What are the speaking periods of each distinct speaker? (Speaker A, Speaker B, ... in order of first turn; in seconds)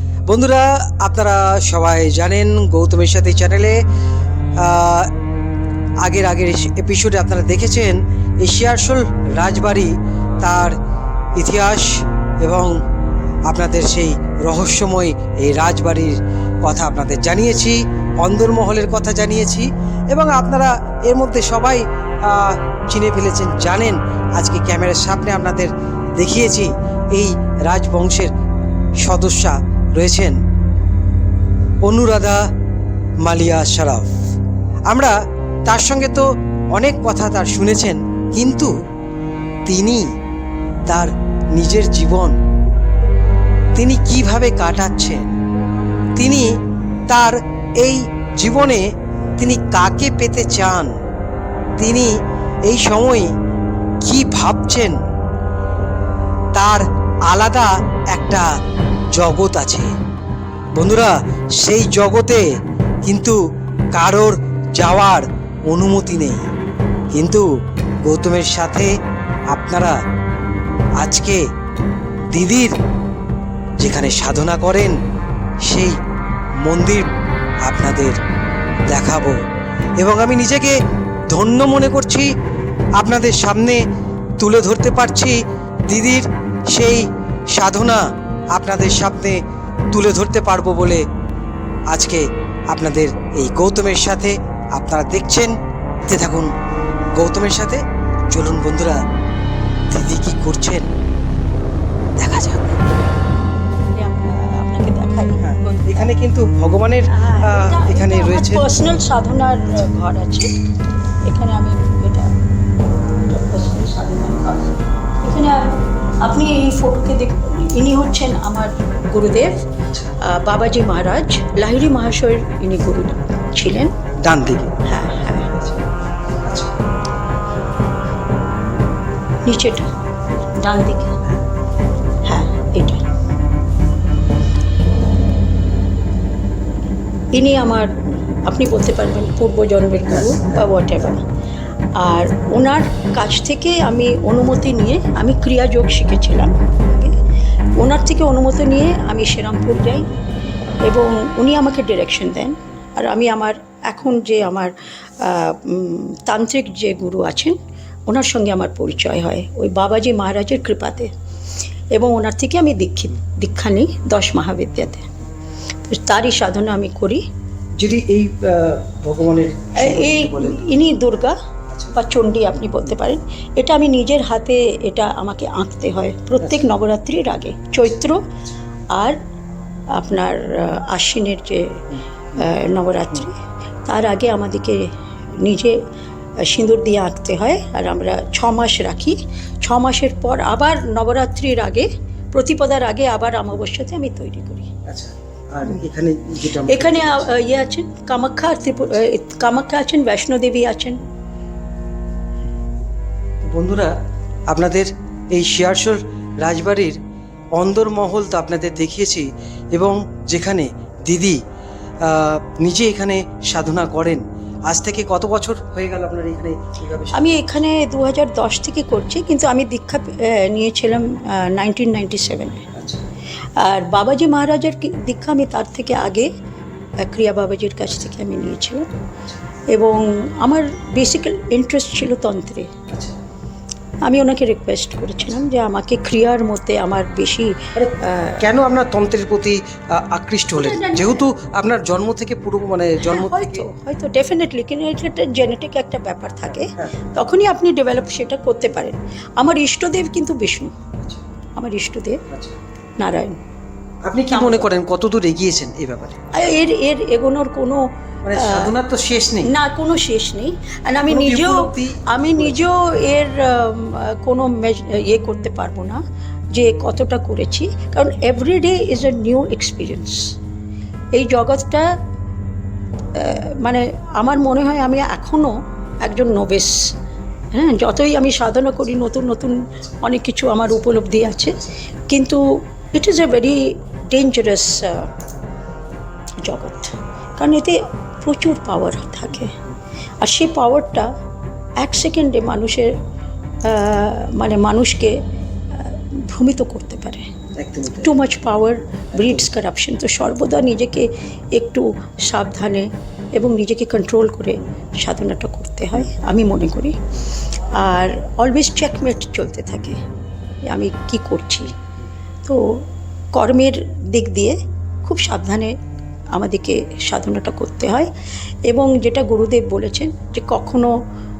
Speaker A: 0.3-3.8, 4.6-5.1, 6.0-10.8, 11.4-12.8, 13.5-28.3, 29.0-30.4, 31.8-32.4, 33.2-34.1, 34.9-38.7, 39.6-40.1, 40.9-42.4, 43.7-45.3, 46.2-46.5, 47.1-50.9, 51.8-53.3, 54.0-55.0, 56.5-58.5, 59.1-59.9, 60.8-62.4, 63.0-63.4, 63.9-66.5, 67.1-67.5, 68.0-68.9, 69.5-70.0, 71.0-71.4, 72.3-72.8, 73.8-75.0, 75.6-76.0, 76.6-77.1, 77.6-78.2, 78.9-79.4, 80.0-80.8, 81.3-82.3, 83.0-83.8, 84.4-91.0, 91.9-96.5, 97.1-99.0, 99.9-100.9, 102.2-102.8, 105.4-108.6, 124.2-124.7, 126.4-126.7, 167.8-170.6, 171.7-172.0, 194.8-197.3, 203.5-203.9, 204.5-207.0, 207.6-211.4, 212.0-217.4, 222.7-223.0, 232.9-233.2, 237.8-243.7, 252.3-252.6, 254.1-256.2, 258.2-259.5, 261.1-262.6, 297.5-298.1
Speaker B: 103.9-106.1, 107.1-110.5, 111.2-112.3, 113.2-119.7, 120.2-123.9, 124.8-125.6, 129.4-129.9, 130.6-131.2, 132.2-133.0, 137.3-137.9, 138.4-141.2, 141.9-147.1, 147.8-150.1, 150.8-157.6, 158.1-161.1, 161.9-165.1, 165.9-167.2, 169.8-171.4, 171.9-178.2, 178.9-179.2, 179.9-185.8, 186.4-194.7, 196.7-201.0, 217.1-222.7, 223.6-226.3, 227.0-228.9, 229.7-232.7, 234.0-238.4, 240.5-241.3, 243.0-250.7, 251.6-252.2, 253.0-253.3, 254.3-254.7, 256.3-257.8, 258.3-258.7, 259.4-266.0, 266.5-270.3, 271.1-271.9, 273.1-276.8, 277.5-285.1, 286.4-289.5, 290.2-291.1, 291.8-292.9, 293.6-295.1, 295.7-297.2, 298.0-307.0, 307.7-310.0, 310.7-311.7, 312.4-315.7, 316.3-318.1, 318.7-320.9